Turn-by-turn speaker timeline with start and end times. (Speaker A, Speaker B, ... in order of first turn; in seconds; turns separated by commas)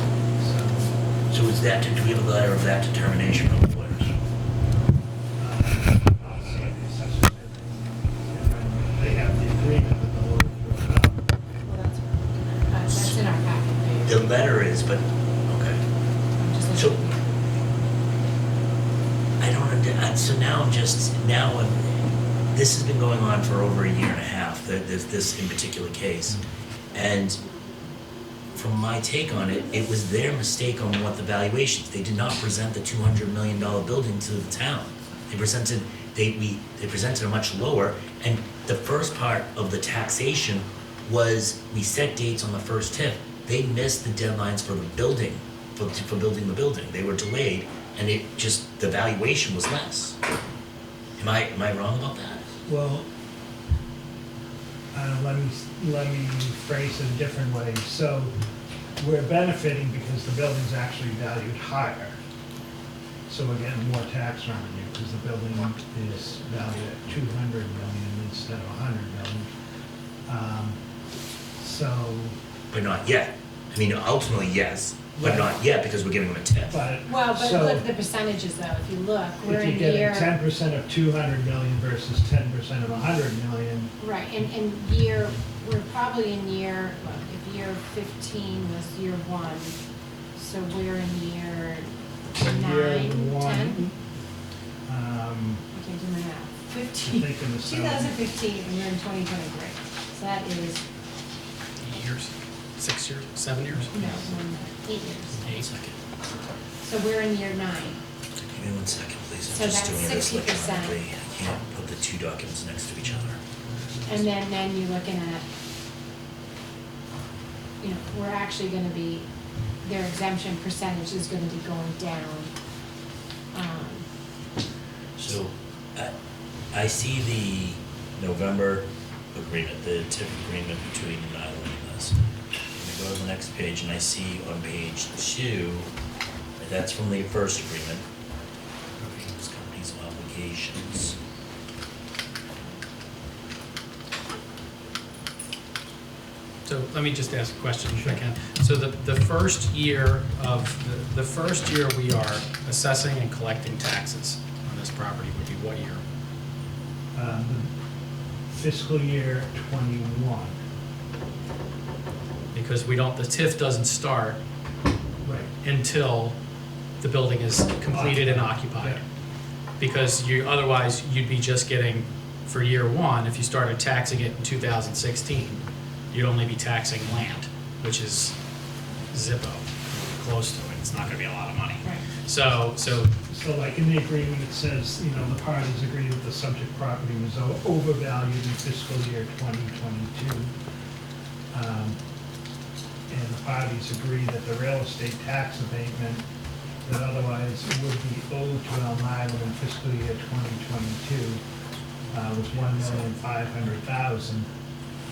Speaker A: 0.3-1.0, Speaker B: 1.3-4.1, Speaker A: 5.4-11.3, Speaker C: 11.7-14.5, Speaker B: 12.9-13.2, Speaker B: 14.0-15.8, Speaker C: 16.4-17.8, Speaker B: 16.7-17.0, Speaker B: 19.4-26.4, Speaker B: 26.9-27.4, Speaker B: 28.6-50.2, Speaker B: 51.2-52.5, Speaker A: 52.7-53.1, Speaker A: 54.9-58.4, Speaker A: 59.0-62.2, Speaker A: 63.3-69.5, Speaker A: 70.3-70.8, Speaker A: 71.6-72.4, Speaker B: 72.7-76.8, Speaker A: 75.2-75.6, Speaker A: 76.7-77.9, Speaker C: 77.1-80.3, Speaker A: 79.4-83.9, Speaker C: 84.0-89.8, Speaker C: 90.4-93.8, Speaker A: 92.4-94.0, Speaker A: 94.9-95.6, Speaker C: 95.7-100.8, Speaker A: 97.0-98.2, Speaker D: 101.8-103.9, Speaker C: 103.9-105.5, Speaker B: 105.4-106.0, Speaker C: 106.8-108.0, Speaker B: 108.3-113.4, Speaker C: 109.5-111.0, Speaker C: 114.0-115.5, Speaker C: 117.8-119.3, Speaker C: 119.8-122.5, Speaker C: 123.5-124.1, Speaker B: 125.2-126.1, Speaker B: 126.7-132.2, Speaker B: 132.7-135.9, Speaker B: 136.6-138.0, Speaker B: 139.0-141.2, Speaker D: 146.7-156.0, Speaker A: 157.1-157.7, Speaker A: 158.5-160.6, Speaker D: 162.5-164.4, Speaker A: 165.2-165.5, Speaker D: 165.6-166.4, Speaker D: 167.0-169.0, Speaker A: 167.9-169.0, Speaker D: 169.8-178.3, Speaker D: 179.1-183.1, Speaker A: 183.3-190.5, Speaker A: 191.5-192.0, Speaker A: 193.1-196.2, Speaker A: 196.8-201.4, Speaker D: 202.1-203.1, Speaker A: 202.1-204.5